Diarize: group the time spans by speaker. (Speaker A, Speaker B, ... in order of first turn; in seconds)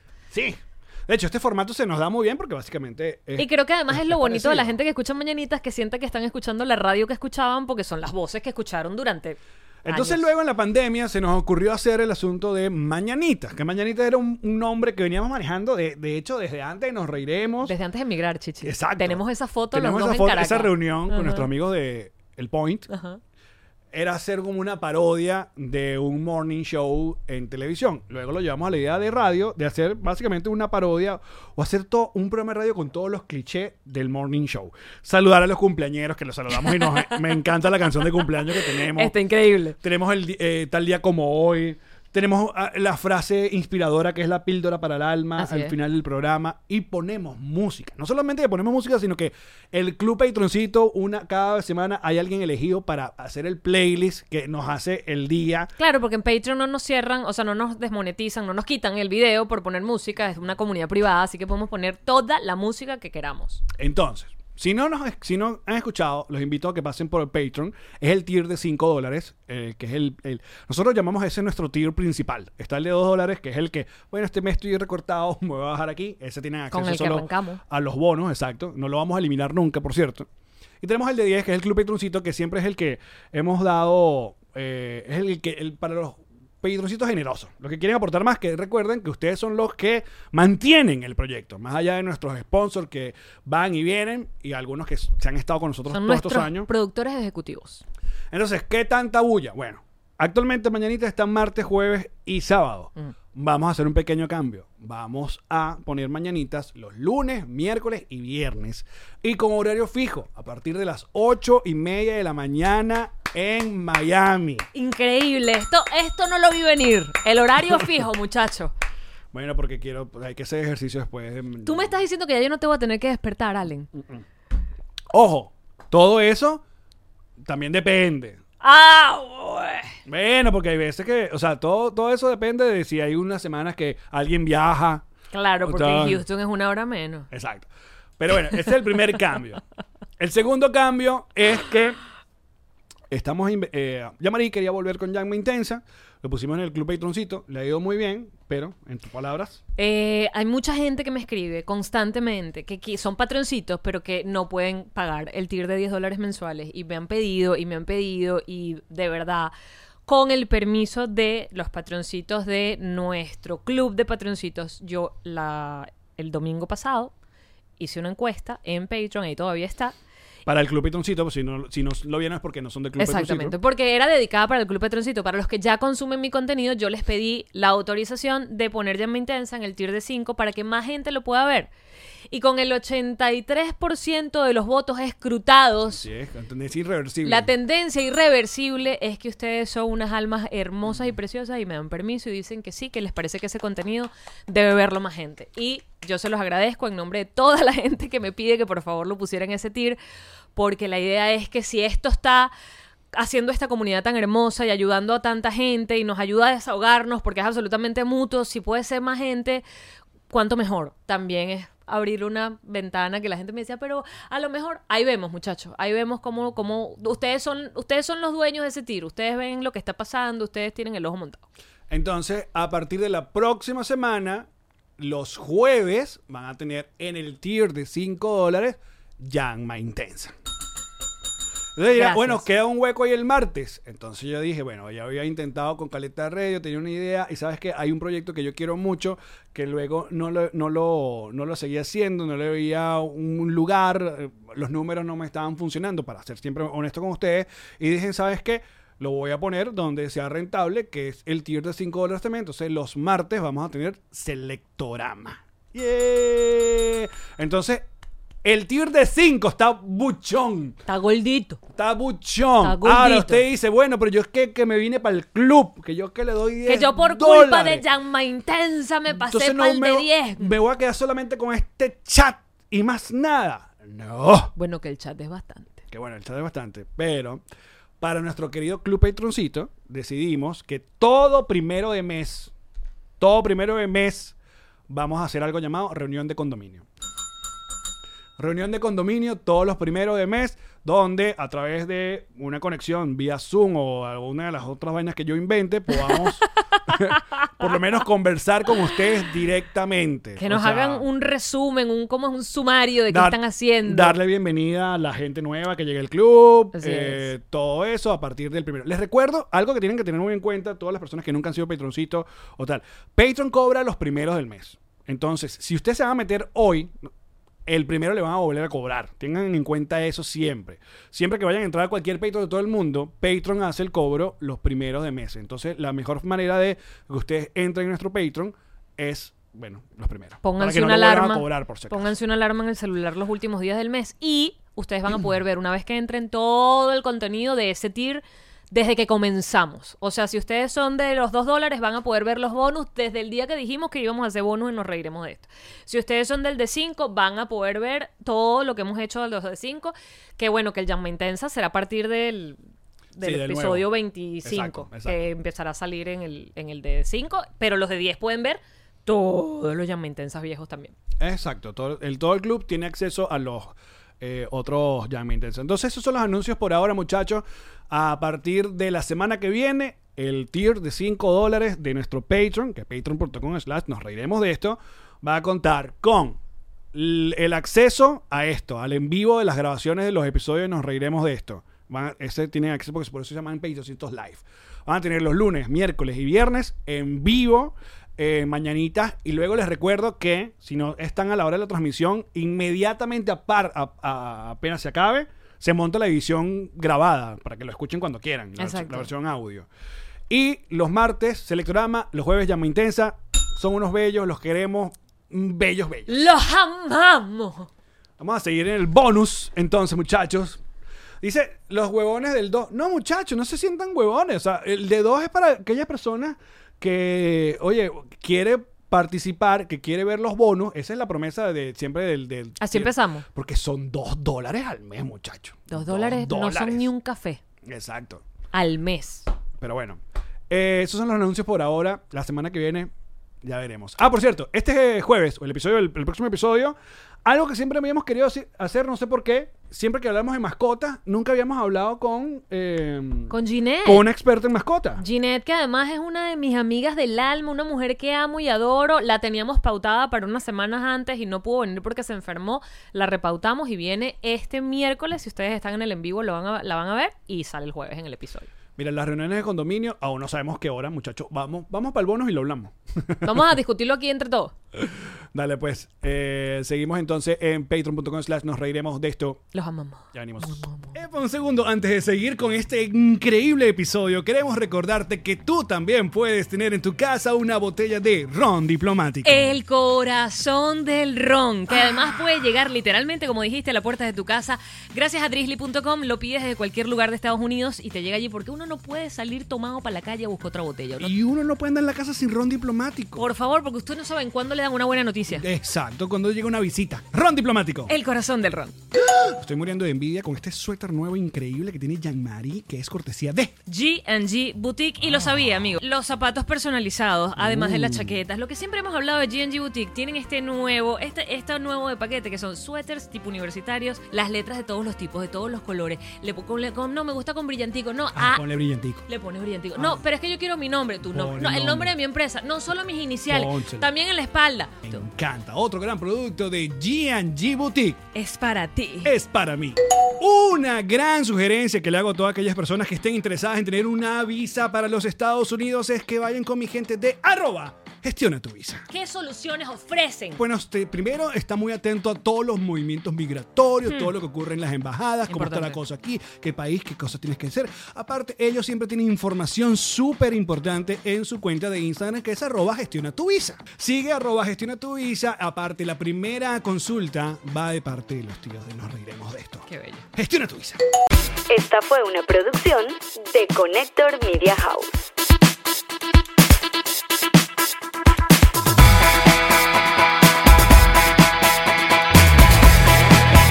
Speaker A: 0.3-4.7, 9.8-17.7, 18.6-22.9, 23.9-39.1, 39.8-55.7, 63.8-80.3, 80.8-96.7, 98.3-114.7, 119.3-121.9, 123.9-124.2, 125.1-126.6, 127.4-128.4, 130.1-135.1, 135.6-136.2, 137.3-139.6, 140.2-142.0, 143.1-149.6, 170.4-173.6, 185.9-187.5, 221.9-230.3, 231.8-257.9, 258.4-260.8, 261.7-267.8, 269.1-274.5, 275.9-277.4, 278.0-282.5, 283.2-284.3, 284.9-286.9, 288.4-301.1, 303.1-317.0, 317.6-332.1, 353.2-353.9, 354.4-355.3, 361.2-376.4, 376.9-399.7, 400.3-406.3, 408.2-410.6, 411.2-426.9, 427.6-428.2, 429.6-432.9, 433.4-445.0, 458.8-463.5, 464.8-469.4, 470.1-479.6, 491.0-493.3, 495.3-497.9, 498.9-503.5, 507.4-508.2, 518.1-519.1, 519.8-520.0, 521.0-521.9, 523.3-523.9, 524.8-528.0, 529.0-538.9, 540.4-560.8
Speaker B: 3.4-10.3, 17.6-21.5, 22.9-23.2, 36.7-37.2, 38.6-39.8, 45.4-45.7, 55.8-63.6, 76.7-77.6, 95.9-97.8, 114.7-118.7, 121.6-123.9, 128.6-129.9, 135.3-137.3, 149.8-159.5, 160.1-167.1, 167.8-169.9, 173.0-181.7, 182.3-186.0, 187.2-200.0, 200.6-202.5, 203.1-209.6, 210.3-221.4, 231.9-232.4, 260.9-261.6, 262.6-263.4, 266.6-270.5, 274.6-275.8, 300.4-304.1, 306.7-307.3, 330.4-352.6, 353.1-360.9, 398.6-399.1, 406.1-407.7, 422.6-423.2, 425.7-427.4, 428.5-429.3, 443.3-444.1, 445.0-458.5, 463.2-464.5, 469.5-470.9, 479.2-491.1, 493.1-495.4, 497.9-498.7, 503.7-518.4, 519.1-525.0, 528.1-529.1, 538.9-540.4, 545.3-545.8, 559.7-560.0
Speaker C: 561.5-565.0